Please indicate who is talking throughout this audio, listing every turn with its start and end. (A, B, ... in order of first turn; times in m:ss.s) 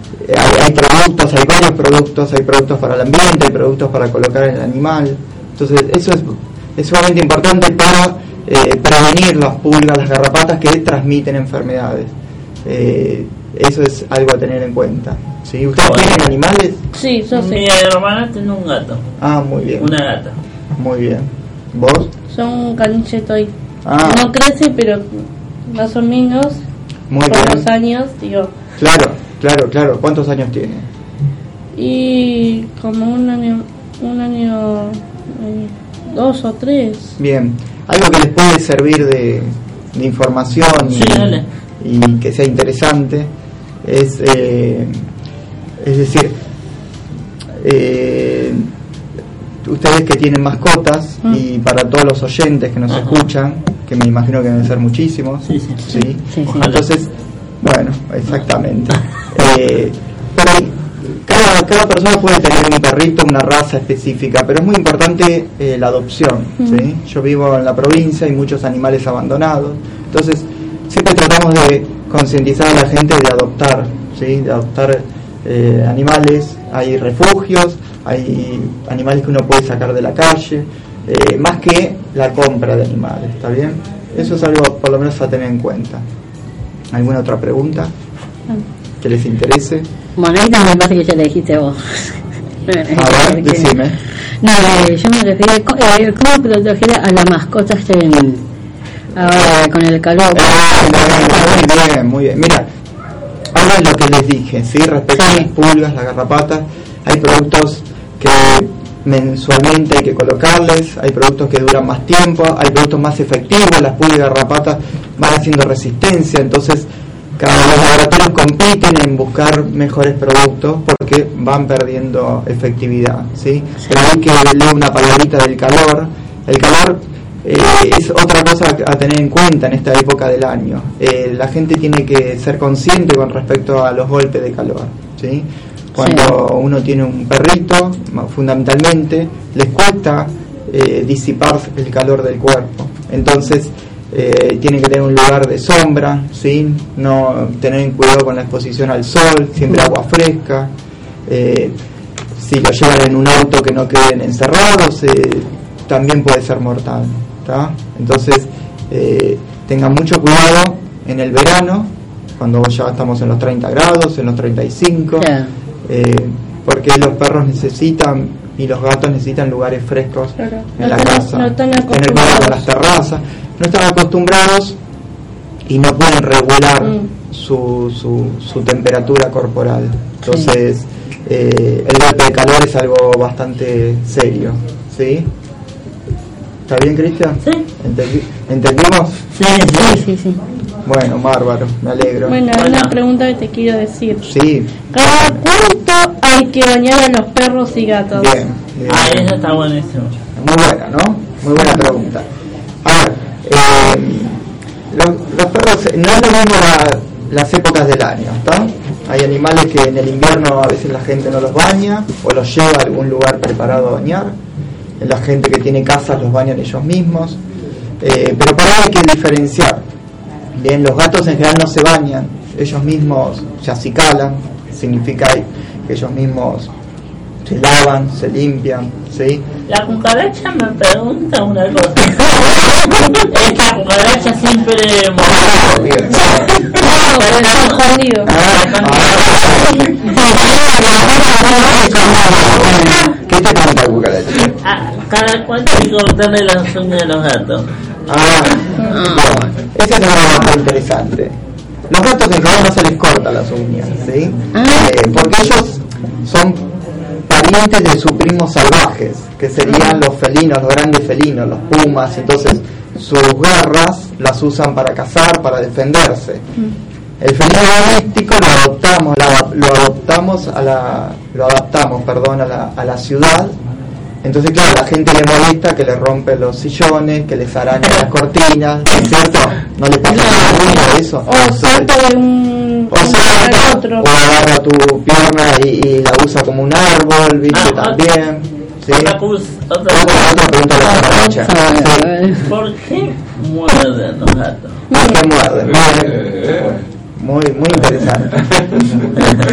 0:00.2-0:12.1 A
0:12.6-0:16.8 A
0:15.8-0:16.2 B
0:17.0-0:17.6 C
0:17.3-0:19.0 B
0:19.2-0:19.9 A
0:19.8-0:20.4 B
0:20.8-0:22.1 A
0:22.3-0:23.5 C
0:23.8-0:24.3 A
0:24.0-0:26.6 C
0:27.1-0:27.7 A
0:27.3-0:28.5 C
0:28.8-0:30.9 A
0:31.8-0:37.1 C
0:37.2-0:43.3 A
0:40.9-0:41.5 B
0:43.8-0:45.1 A
0:45.8-0:46.4 A
0:47.6-0:48.7 A
0:49.6-1:26.0 A
0:52.9-0:53.2 B
0:55.5-0:55.8 B
0:56.5-0:56.8 B
1:26.9-1:27.9 A
1:29.0-1:29.9 A
1:30.2-1:33.7 D
1:32.9-1:34.0 A
1:34.4-1:38.4 D
1:39.2-1:41.3 D
1:40.3-1:42.7 A
1:43.5-1:56.9 A
1:45.2-1:45.5 D
1:57.4-2:30.7 A
2:16.0-2:16.3 D
2:31.3-2:31.8 A
2:32.4-2:45.3 A
2:45.2-2:45.5 D
2:45.8-2:54.8 A
2:50.4-2:52.6 C
2:55.7-3:05.3 A
2:56.8-2:57.1 C
3:00.3-3:00.5 D
3:06.7-3:09.2 A
3:09.4-3:10.0 B
3:09.7-3:10.4 D
3:10.8-3:12.4 A
3:12.3-3:14.3 C
3:12.6-3:13.0 B
3:14.2-3:15.4 A
3:14.9-3:18.4 C
3:18.1-3:19.4 A
3:18.9-3:20.2 B
3:20.4-3:22.3 A
3:22.8-3:34.4 A
3:35.0-3:37.4 A
3:38.0-3:39.9 A
3:40.5-3:46.7 A
3:47.4-3:49.5 A
3:49.7-3:57.9 B
3:55.6-3:56.5 A
3:56.8-3:58.3 C
3:58.3-4:04.6 A
3:58.4-3:59.9 B
4:04.6-4:07.7 B
4:08.1-4:11.4 A
4:08.9-4:09.5 D
4:11.9-4:16.7 A
4:14.5-4:14.9 D
4:17.3-4:26.5 A
4:19.7-4:20.0 C
4:27.2-4:33.6 A
4:34.2-4:41.9 A
4:41.3-4:44.1 C
4:42.9-4:49.2 A
4:47.5-4:48.0 B
4:48.9-4:50.3 B
4:49.9-4:52.1 A
4:50.9-4:52.4 D
4:52.4-4:54.8 B
4:54.9-4:55.2 C
4:54.9-4:59.0 A